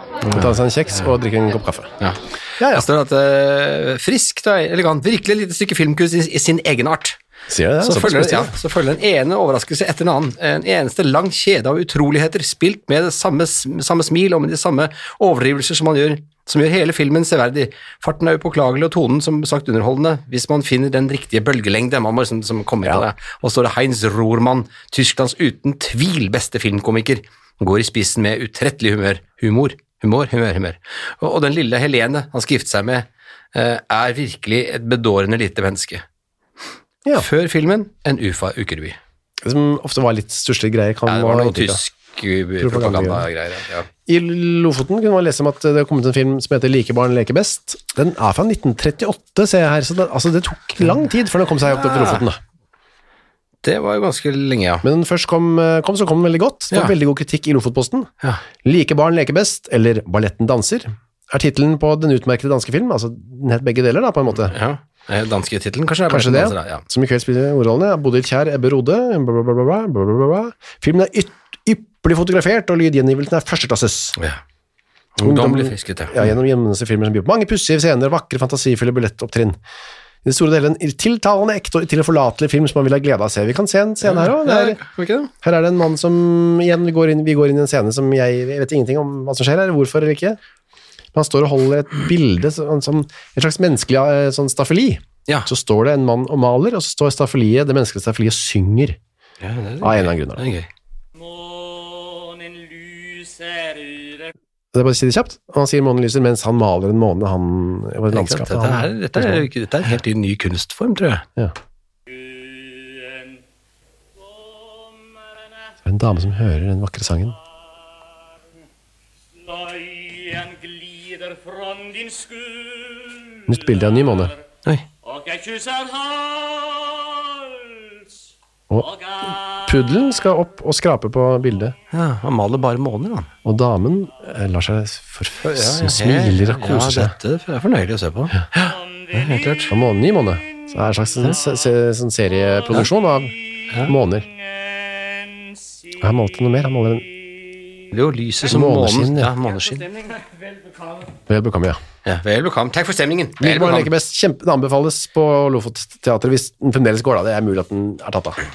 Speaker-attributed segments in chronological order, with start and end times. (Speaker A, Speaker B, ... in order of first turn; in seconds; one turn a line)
Speaker A: 0.2-0.6
Speaker B: 0.3-1.9
Speaker A: 2.0-7.2
Speaker B: 2.6-2.9
Speaker B: 7.5-8.5
Speaker A: 7.8-36.0
Speaker A: 37.1-39.0
Speaker B: 39.4-41.8
Speaker A: 41.1-43.9
Speaker B: 42.6-43.3
Speaker B: 44.1-52.4
Speaker A: 51.7-52.2
Speaker A: 53.6-54.9
Speaker B: 54.8-58.1
Speaker B: 58.6-64.6
Speaker A: 64.4-66.8
Speaker B: 66.1-74.2
Speaker A: 75.2-76.3
Speaker B: 75.2-79.6
Speaker B: 80.2-84.8
Speaker A: 84.0-85.3
Speaker B: 85.4-90.4
Speaker B: 91.1-99.0
Speaker A: 99.4-100.7
Speaker B: 99.8-100.5
Speaker C: 102.4-103.6
Speaker B: 104.7-109.5
Speaker A: 108.1-111.2
Speaker B: 115.8-117.4
Speaker C: 120.5-122.5
Speaker B: 123.5-124.3
Speaker C: 125.2-126.4
Speaker B: 128.7-131.8
Speaker A: 131.9-133.3
Speaker B: 133.4-137.1
Speaker A: 135.4-139.7
Speaker B: 139.7-144.3
Speaker B: 146.0-147.1
Speaker A: 147.9-149.9
Speaker B: 148.5-149.3
Speaker B: 151.3-151.8
Speaker A: 152.1-153.9
Speaker B: 153.4-158.4